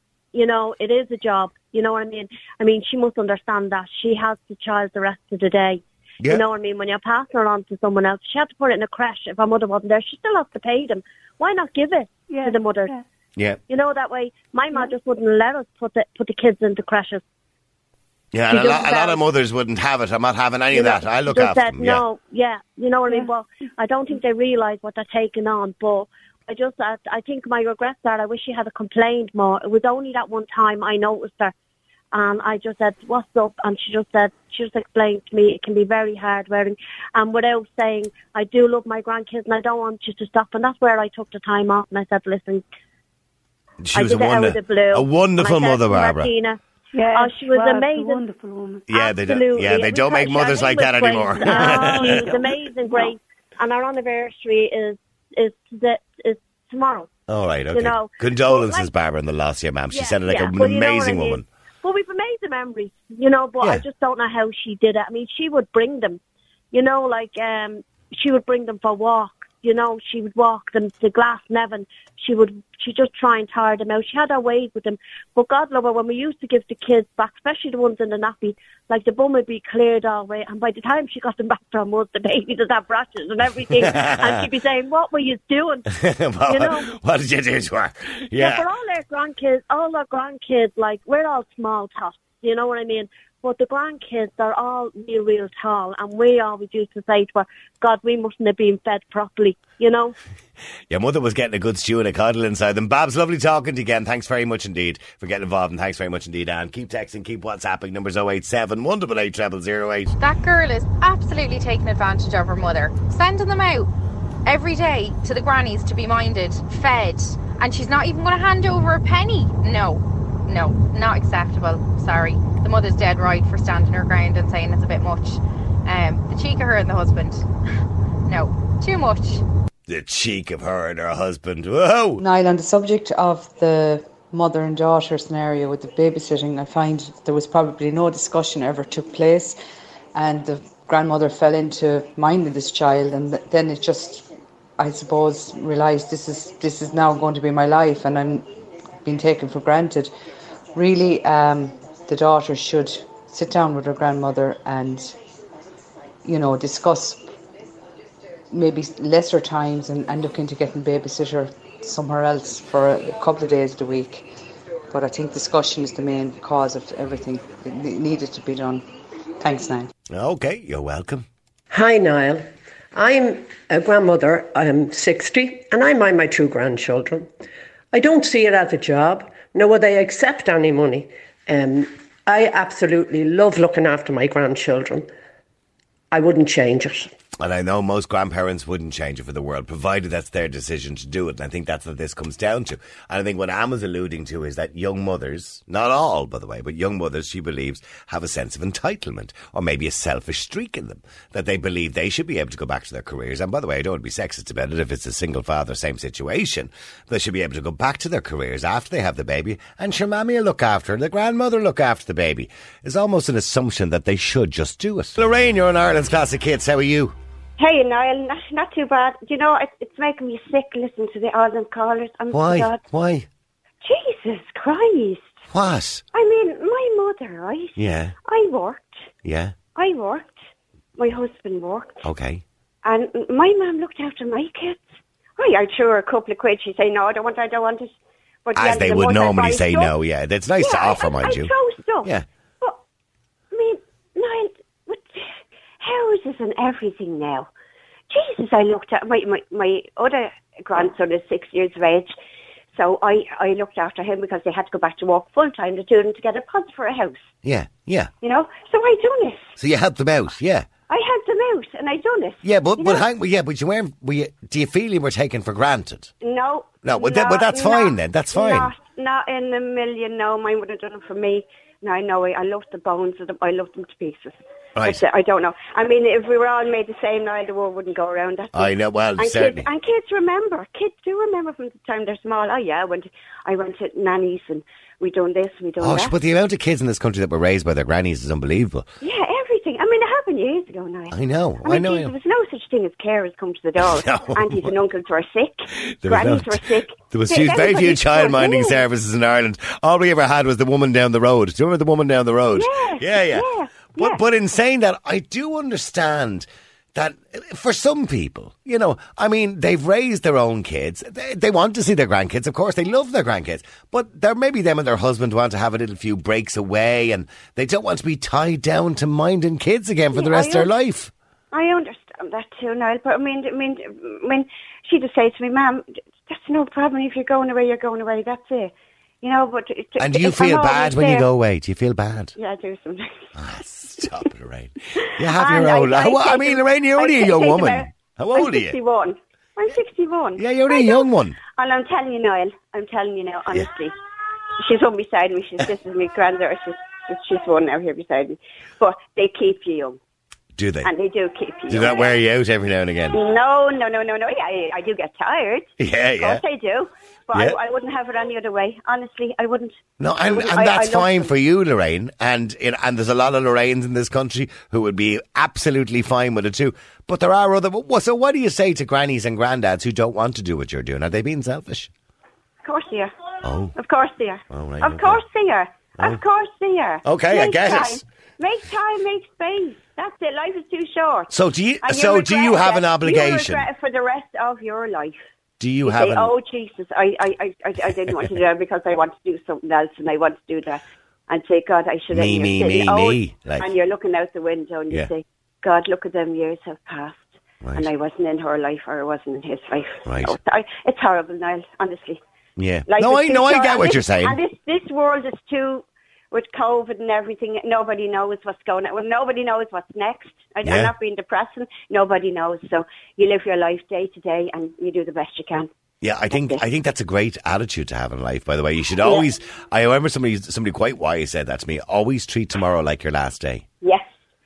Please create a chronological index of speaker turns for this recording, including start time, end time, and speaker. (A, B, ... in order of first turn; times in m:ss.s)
0:00.3-0:12.9 A
0:12.3-0:13.0 B
0:13.7-0:17.2 A
0:18.3-0:22.0 C
0:18.5-0:19.2 A
0:20.7-0:31.5 A
0:32.1-0:42.6 A
0:43.8-0:46.3 C
0:43.9-0:46.6 A
0:46.9-0:48.8 B
0:47.1-0:48.2 A
0:48.9-0:52.3 C
0:48.9-0:57.1 A
0:51.4-0:53.1 B
0:57.3-1:01.4 C
0:57.7-0:58.9 A
0:59.9-1:06.2 A
1:06.7-1:25.9 A
1:23.8-1:24.4 C
1:25.9-1:28.6 C
1:26.5-1:26.9 A
1:28.3-1:40.1 A
1:40.9-1:50.1 C
1:50.2-1:53.9 D
1:54.4-2:07.4 D
2:08.2-2:09.4 D
2:09.9-2:12.2 C
2:12.2-2:19.6 E
2:20.1-2:24.3 E
2:24.8-2:28.5 E
2:29.0-2:30.1 E
2:30.7-2:35.2 E
2:36.2-2:37.3 E
2:38.5-2:44.3 E
2:44.9-2:48.9 E
2:49.4-2:49.9 E
2:50.1-2:51.2 C
2:51.7-2:57.3 F
2:57.9-3:05.1 F
3:06.1-3:07.1 F
3:07.4-3:37.2 C
3:37.6-3:42.8 G
3:42.3-3:43.3 C
3:43.8-3:45.4 G
3:45.5-3:46.0 C
3:46.1-3:49.1 G
3:47.8-3:48.1 C
3:49.2-3:49.5 C
3:49.7-3:50.4 G
3:51.0-3:52.1 G
3:52.0-3:52.4 C
3:52.8-3:57.9 G
3:58.4-3:59.9 G
3:58.6-4:02.2 C
4:00.6-4:02.8 G
4:03.5-4:07.5 G
4:08.1-4:12.1 G
4:12.7-4:17.3 G
4:17.4-4:18.1 C
4:18.2-4:19.6 G
4:19.6-4:20.7 C
4:20.9-4:23.0 G
4:22.4-4:26.1 C
4:26.2-4:46.1 G
4:26.8-4:28.7 C
4:34.8-4:35.0 C
4:38.5-4:39.7 C
4:45.8-4:48.8 C
4:49.0-4:58.8 G
4:51.1-4:52.1 C
4:53.8-4:54.7 C
4:55.9-5:21.1 C
5:02.5-5:04.2 G
5:20.1-5:20.7 G
5:21.5-5:31.2 G
5:30.0-5:32.3 C
5:32.4-5:33.3 G
5:33.4-5:38.8 C
5:35.2-5:43.9 G
5:40.4-5:41.4 C
5:44.6-5:50.0 G
5:50.6-5:50.9 C
5:50.8-5:52.2 G
5:51.7-5:53.2 C
5:53.1-6:01.3 G
5:55.8-5:56.4 C
6:00.0-6:11.9 C
6:12.6-6:13.1 G
6:13.4-6:13.7 C
6:13.7-6:21.3 G
6:14.5-6:15.2 C
6:17.0-6:18.0 C
6:21.3-6:23.6 C
6:21.8-6:25.3 G
6:25.6-6:26.3 C
6:25.8-6:42.2 G
6:27.9-6:28.3 C
6:32.1-6:33.7 C
6:37.6-6:37.9 C
6:40.0-6:40.4 C
6:42.6-6:44.4 C
6:42.9-6:55.7 G
6:50.6-6:50.9 C
6:56.0-7:03.6 C
6:56.3-6:56.6 G
6:59.0-6:59.3 G
7:03.8-7:04.2 G